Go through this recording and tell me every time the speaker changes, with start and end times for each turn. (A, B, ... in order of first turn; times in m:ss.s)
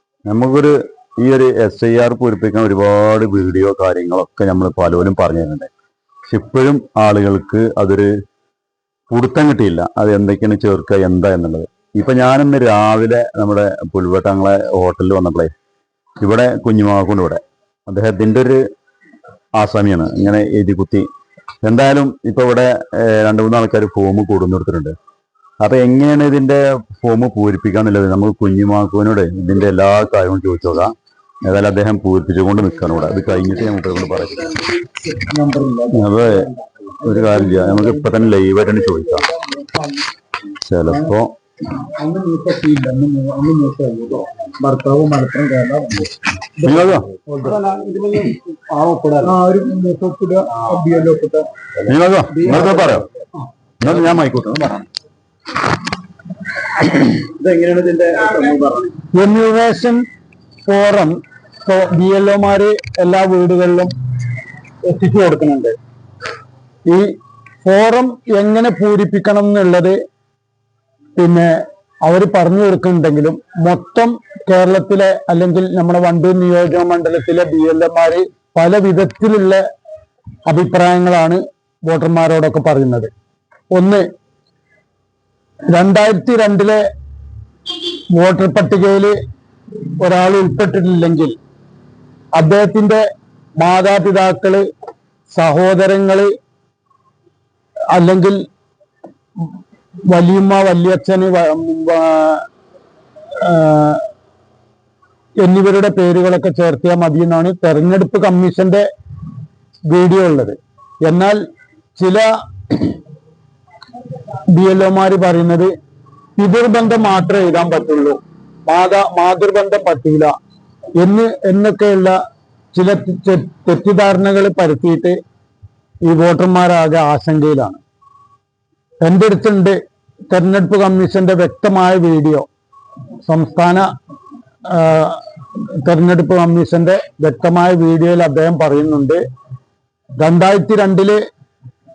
0:00.3-0:05.7 A
0:06.3-0:08.1 A
0:09.1-0:15.5 A
0:16.2-0:18.6 A
0:19.6-0:21.1 A
0:21.6-0:24.9 A
0:25.6-0:34.6 A
0:34.9-0:38.2 B
0:35.9-0:36.5 A
0:37.0-0:39.2 A
0:39.3-0:39.9 B
0:40.6-0:41.3 A
0:41.8-0:51.5 B
0:46.6-0:47.1 A
0:51.8-0:53.1 A
0:52.3-0:53.1 B
0:53.8-0:54.9 A
0:56.8-0:58.9 B
0:59.1-1:00.0 C
1:00.7-1:03.9 C
1:04.8-1:05.8 C
1:07.6-1:10.0 C
1:11.2-1:19.6 C
1:20.5-1:23.1 C
1:23.7-1:24.1 C
1:25.7-1:26.8 C
1:27.9-1:29.1 C
1:30.0-1:31.4 C
1:32.4-1:33.0 C
1:33.6-1:34.6 C
1:35.3-1:36.3 C
1:37.9-1:38.4 C
1:40.1-1:42.5 C
1:43.3-1:44.1 C
1:45.4-1:48.8 C
1:49.9-1:51.4 C
1:52.0-1:53.0 C
1:54.1-1:55.7 C
1:56.4-2:00.3 C
2:01.0-2:02.2 C
2:02.7-2:05.2 C
2:06.1-2:07.8 C
2:09.0-2:09.8 C
2:10.3-2:12.5 C
2:13.2-2:13.9 C
2:14.7-2:19.2 C
2:20.2-2:21.2 C